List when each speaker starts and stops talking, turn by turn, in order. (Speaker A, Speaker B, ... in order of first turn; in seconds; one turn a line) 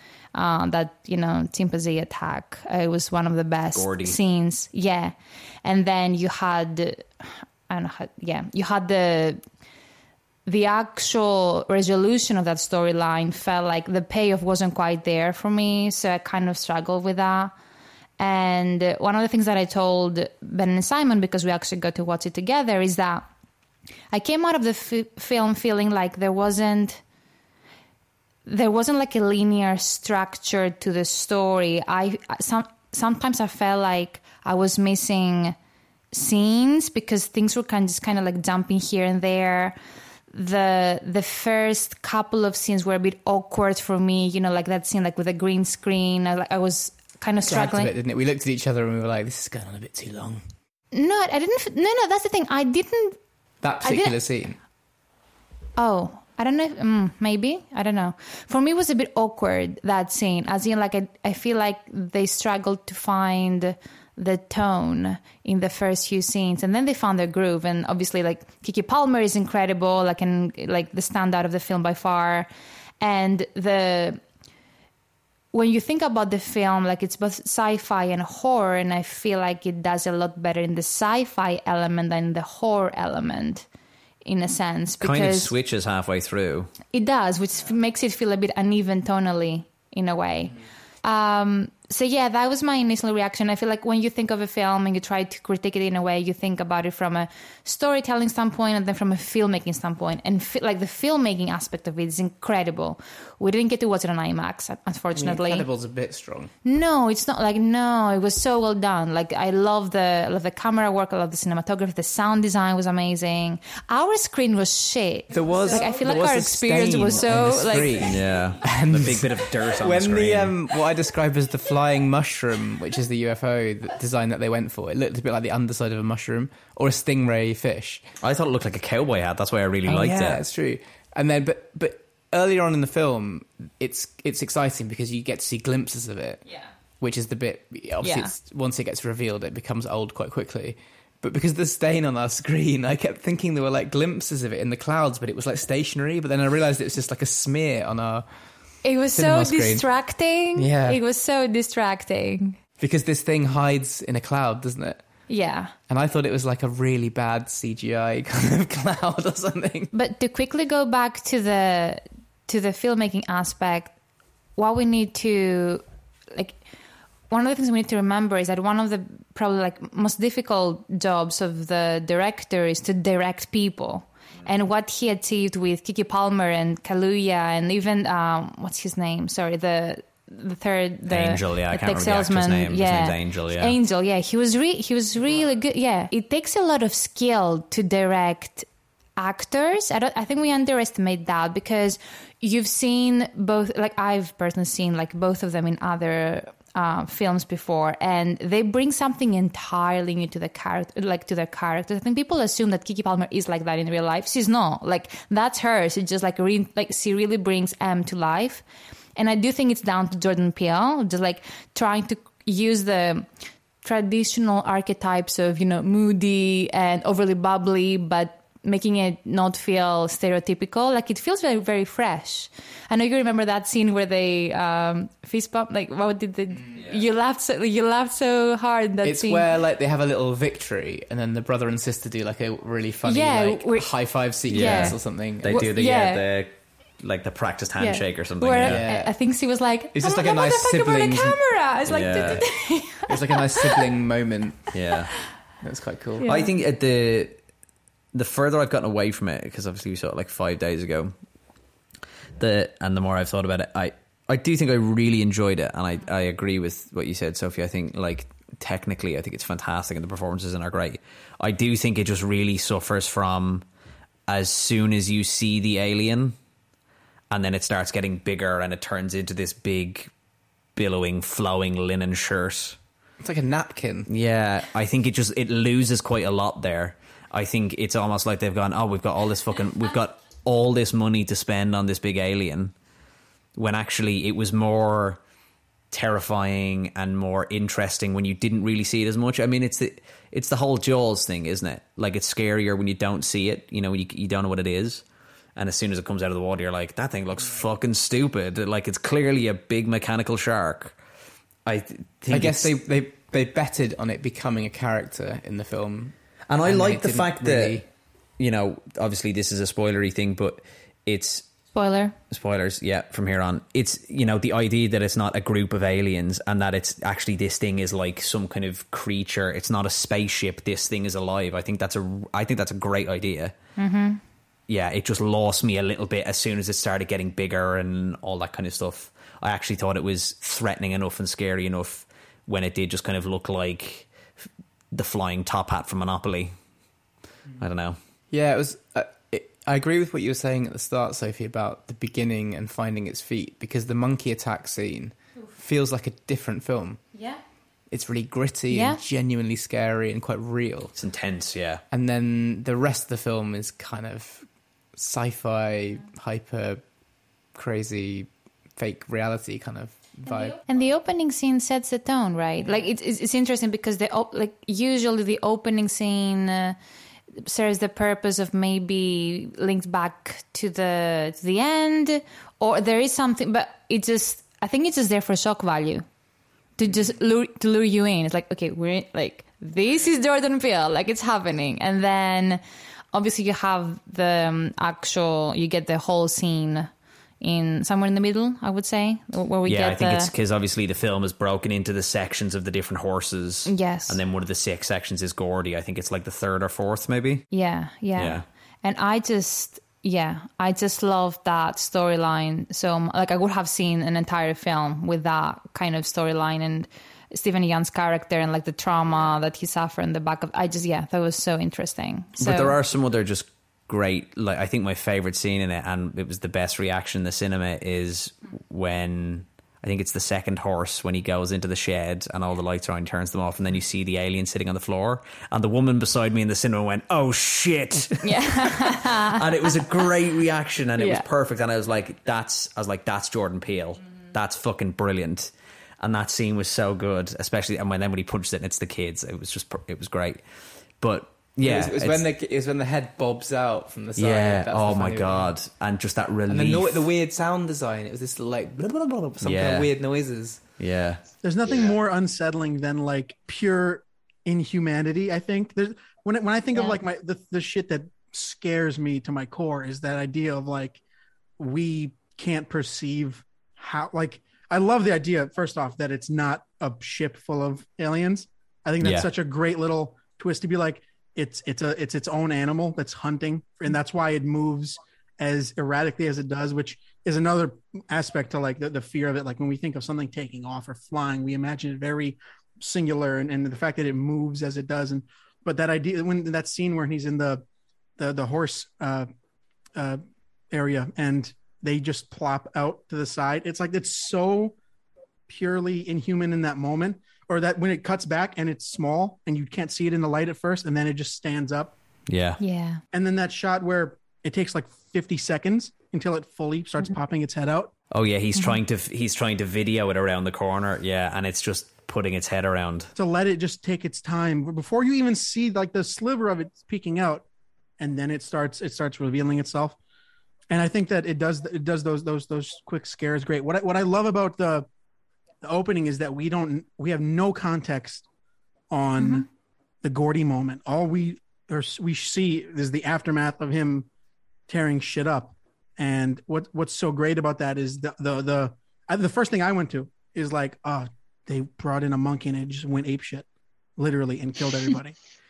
Speaker A: 0.3-9.4
Speaker B: 3.7-4.2
Speaker A: 10.4-17.5
Speaker A: 18.2-23.3
Speaker A: 24.1-27.0
Speaker A: 28.4-35.5
Speaker A: 36.1-39.8
Speaker A: 40.3-47.9
Speaker C: 47.4-50.4
Speaker A: 50.9-53.2
Speaker C: 53.6-54.6
Speaker A: 53.8-54.2
Speaker A: 55.8-72.5
Speaker A: 73.0-74.2
Speaker A: 75.5-83.7
Speaker A: 84.3-85.5
Speaker B: 85.0-86.7
Speaker A: 86.9-105.6
Speaker C: 105.1-106.5
Speaker A: 106.6-118.1
Speaker C: 115.3-128.1
Speaker B: 118.0-120.5
Speaker B: 128.2-130.4
Speaker C: 129.9-136.4
Speaker C: 137.0-148.3
Speaker A: 138.0-138.3
Speaker A: 148.8-152.6
Speaker C: 149.1-149.8
Speaker C: 150.6-151.0
Speaker C: 152.8-155.0
Speaker A: 155.3-155.7
Speaker C: 155.9-159.9
Speaker A: 159.9-163.9
Speaker A: 164.6-165.8
Speaker A: 166.3-166.6
Speaker A: 167.3-208.6
Speaker B: 181.1-183.8
Speaker A: 209.2-213.3
Speaker A: 213.8-229.4
Speaker C: 229.0-235.7
Speaker A: 233.1-233.9
Speaker A: 234.5-236.2
Speaker B: 234.5-238.9
Speaker A: 237.8-243.8
Speaker C: 238.6-239.1
Speaker C: 239.9-241.4
Speaker B: 241.9-242.4
Speaker C: 242.1-242.5
Speaker C: 243.1-244.7
Speaker B: 244.7-245.1
Speaker C: 245.6-246.2
Speaker A: 246.2-246.5
Speaker B: 246.3-247.4
Speaker B: 248.1-251.1
Speaker B: 252.4-263.6
Speaker B: 264.3-266.4
Speaker B: 267.3-270.1
Speaker B: 270.8-272.8
Speaker C: 273.2-274.1
Speaker B: 274.1-282.7
Speaker B: 283.6-285.2
Speaker B: 285.9-295.0
Speaker B: 295.6-301.0
Speaker B: 301.6-302.7
Speaker C: 302.3-307.9
Speaker B: 306.5-307.8
Speaker B: 308.4-311.5
Speaker A: 311.7-312.1
Speaker B: 312.3-323.6
Speaker A: 323.8-324.2
Speaker B: 324.7-334.1
Speaker B: 334.9-336.6
Speaker B: 337.6-338.0
Speaker C: 338.3-347.0
Speaker A: 347.1-347.4
Speaker C: 347.9-350.9
Speaker A: 348.7-349.0
Speaker B: 350.9-351.8
Speaker C: 351.9-356.8
Speaker C: 357.6-360.6
Speaker A: 360.6-366.8
Speaker A: 367.4-376.1
Speaker A: 376.8-382.6
Speaker A: 383.1-386.9
Speaker A: 387.4-390.3
Speaker B: 389.7-397.4
Speaker A: 393.7-394.2
Speaker A: 397.5-412.8
Speaker B: 398.2-398.4
Speaker B: 412.4-440.4
Speaker A: 428.2-429.4
Speaker A: 431.0-431.3
Speaker B: 441.0-442.2
Speaker C: 441.6-445.5
Speaker B: 444.2-447.0
Speaker C: 446.5-450.6
Speaker B: 449.4-449.9
Speaker B: 450.8-451.2
Speaker D: 451.4-461.0
Speaker D: 461.6-487.6
Speaker B: 469.0-469.3
Speaker D: 488.2-489.3
Speaker D: 489.9-494.8
Speaker D: 495.5-501.9
Speaker B: 502.3-502.6
Speaker A: 502.6-503.0
Speaker D: 503.1-507.9
Speaker B: 508.1-513.1
Speaker D: 513.2-517.5
Speaker D: 518.0-520.0
Speaker D: 520.7-524.9
Speaker D: 525.6-528.3
Speaker D: 528.9-529.5
Speaker A: 529.2-529.5
Speaker D: 530.0-534.1
Speaker D: 534.7-545.2